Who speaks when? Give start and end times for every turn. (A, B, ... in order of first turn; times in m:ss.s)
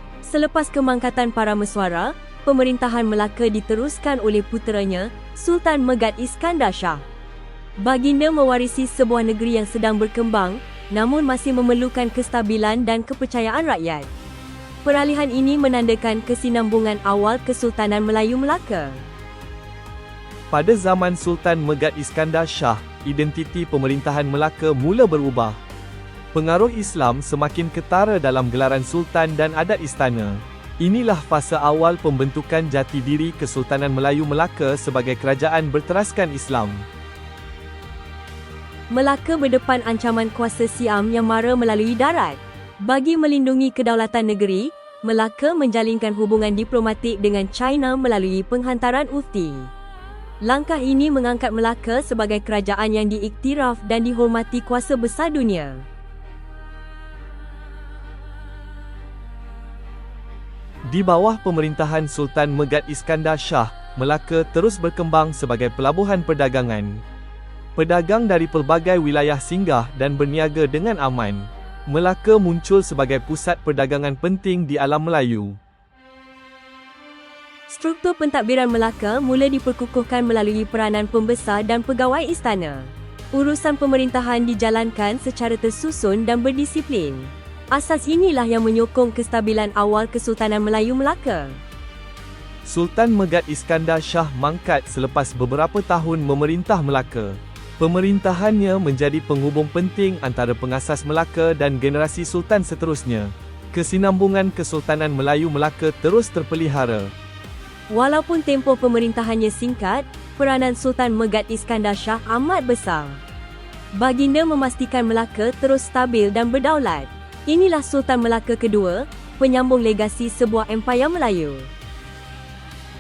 0:00.2-0:07.0 A
0:07.8-0:14.1 A
0:14.8-0:19.0 A
0:20.5-0:25.6 B
0:26.3-0:36.9 B
0:38.9-0:49.7 A
0:50.4-0:55.8 A
1:00.8-1:07.0 B
1:07.8-1:15.6 B
1:17.7-1:31.6 A
1:32.6-1:47.1 B
1:47.9-1:53.2 A
1:53.9-2:01.7 A